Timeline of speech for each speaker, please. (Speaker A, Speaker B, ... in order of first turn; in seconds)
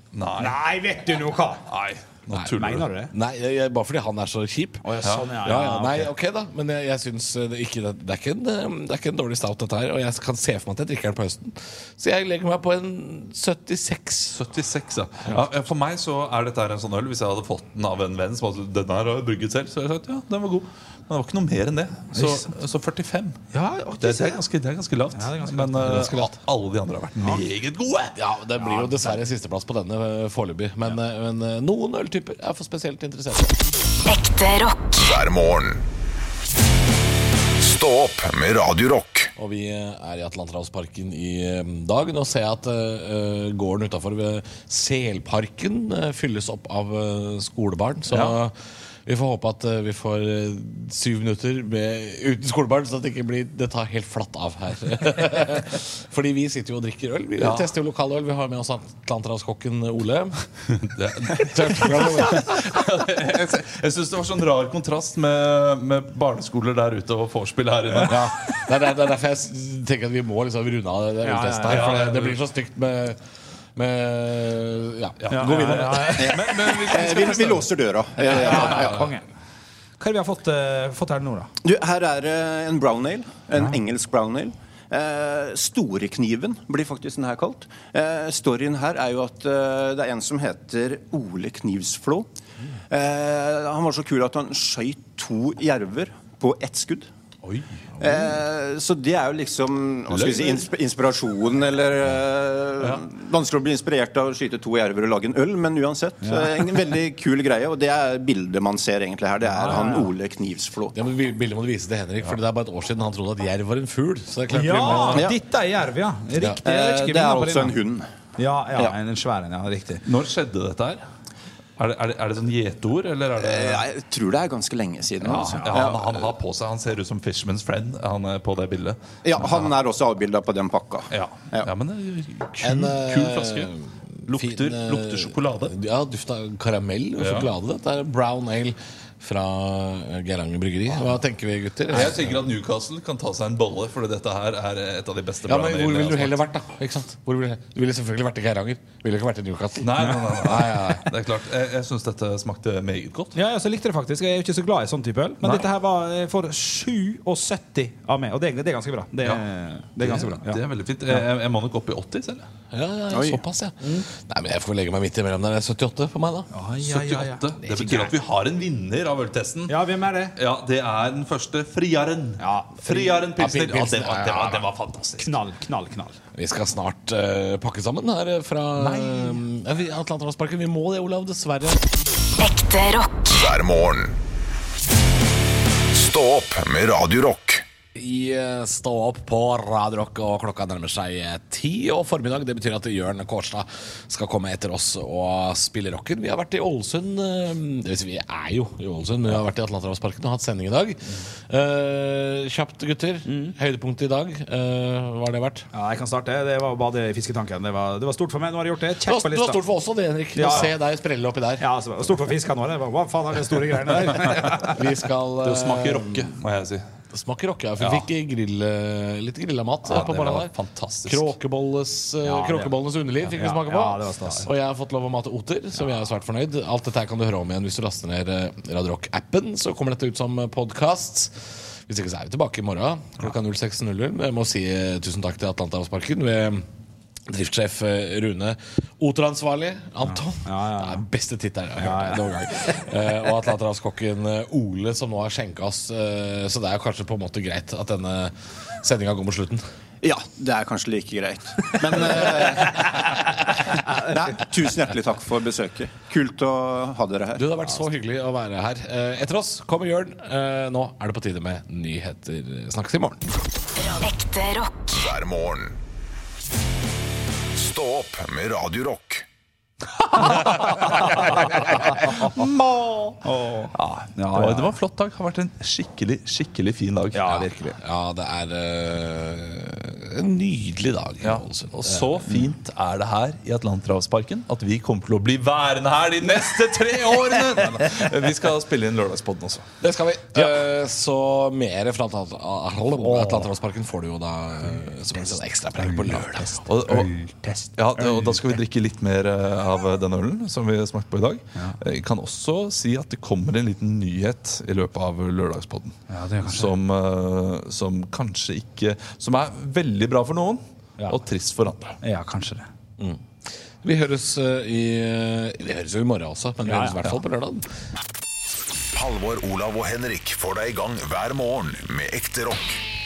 Speaker A: 0.1-0.6, 1.7-2.9, 14.3-23.4, 24.0-28.1, 48.1-48.4, 57.4-57.7, 60.7-68.3, 71.7-72.4, 75.2-77.7, 78.3-79.0, 97.4-97.7, 100.1-100.7, 120.0-121.0, 121.8-123.8, 125.2-129.7, 131.1-133.7, 134.3-135.7, 137.2-137.5, 141.9-146.4, 149.8-153.3, 155.4-155.7, 160.0-162.5, 166.8-169.8, 170.4-175.4, 178.8-179.4, 215.4-216.8, 217.8-218.1, 219.9-221.3, 270.2-270.7, 272.2-273.1, 273.8-277.4, 281.2-289.6, 296.6-297.1, 297.8-312.0
Speaker B: 0.4-1.6, 2.6-3.1, 4.8-6.1, 22.1-22.5, 23.5-24.4, 25.1-26.3, 71.2-72.1, 75.3-76.9, 78.3-79.2, 80.0-81.5, 106.2-106.5, 109.5-110.1, 114.5-117.7, 118.4-120.0, 125.3-125.9, 153.3-161.2, 166.5-167.5, 169.7-170.4, 172.4-173.3, 175.2-176.2, 203.3-203.6, 205.7-209.6, 210.3-210.8, 211.6-214.8, 222.2-222.7, 223.3-224.5, 240.1-241.0, 241.8-242.3, 270.2-272.4, 273.2-274.7, 277.1-277.8, 293.1-293.5, 295.8-296.3, 296.8-298.6, 306.1-306.8, 312.0-312.7, 316.6-317.0
Speaker C: 3.1-4.9, 5.4-14.4, 28.1-33.6, 39.4-48.5, 49.1-60.4, 61.3-62.7, 68.0-73.2, 73.8-76.2, 78.6-78.9, 110.9-115.2, 132.6-142.4, 145.5-151.1, 162.7-166.5, 167.6-168.1, 173.4-174.7, 176.3-181.8, 187.9-205.7, 209.1-211.6, 214.7-216.3, 217.1-220.5, 221.1-236.7, 237.3-249.6, 257.4-263.3, 277.8-282.1, 289.8-296.6, 313.8-317.7
Speaker D: 34.1-34.8, 182.4-183.2, 263.8-264.8
Speaker E: 34.9-35.8, 37.6-39.3, 183.3-184.2, 186.0-187.7, 264.9-265.8, 267.6-269.3, 318.9-322.8
Speaker F: 76.2-79.0, 81.6-92.3, 92.9-97.1, 98.0-110.9, 116.6-118.1, 123.4-126.1, 129.2-131.7, 163.1-163.4, 250.0-257.4